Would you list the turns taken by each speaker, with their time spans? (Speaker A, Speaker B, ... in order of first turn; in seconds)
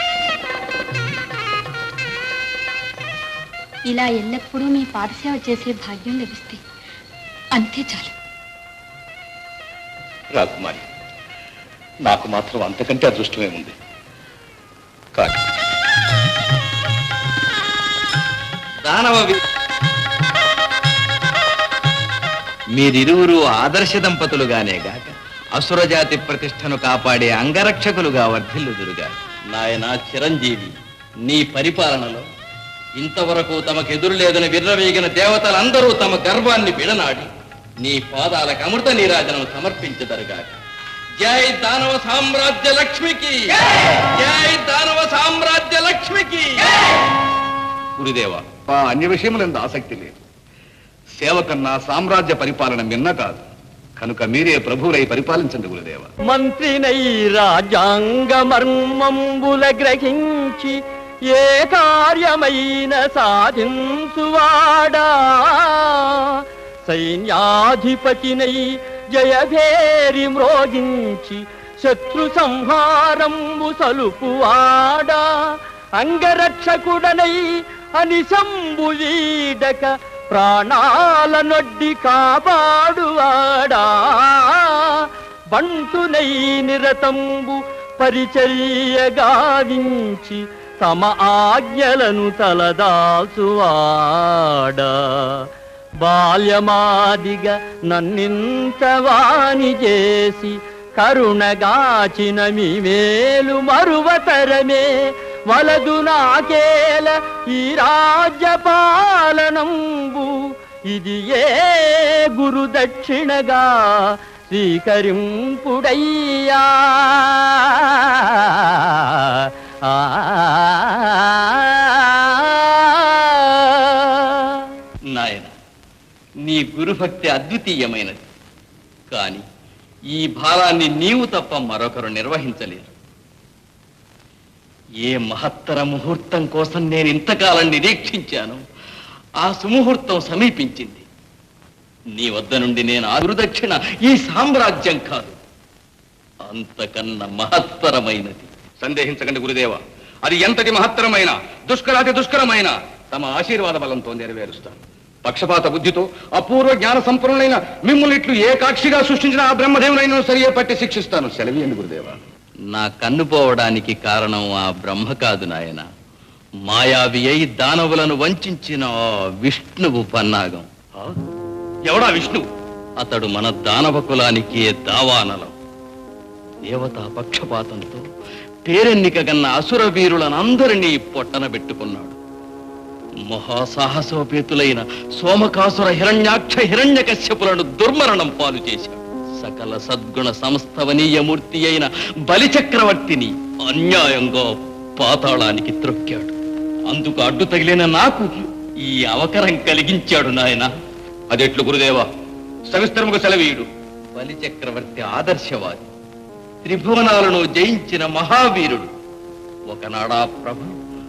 Speaker A: 3.9-6.6, 7.5-8.1
Speaker B: 10.3-10.8, 12.0-13.7, 48.2-50.1, 51.2-53.4, 54.0-56.1, 148.8-162.2, 171.8-172.5, 201.3-202.1, 202.7-203.7
Speaker C: 18.8-19.4, 22.7-32.2, 33.0-37.3, 37.8-40.5, 41.2-46.9, 48.0-48.2, 125.1-125.5, 126.4-128.2, 129.1-129.4, 130.1-132.9, 135.0-138.6, 139.4-141.1, 142.2-145.3, 146.4-148.5, 162.7-165.8, 166.7-170.7, 173.0-175.5, 176.7-178.1, 178.7-182.2, 183.3-196.3, 196.9-198.3, 198.8-200.7, 204.1-205.9, 206.6-208.9, 209.7-210.8
Speaker D: 56.3-60.8, 61.4-75.2, 76.0-77.4, 78.0-95.4, 96.0-104.8, 105.5-110.3, 110.9-117.8, 120.0-122.7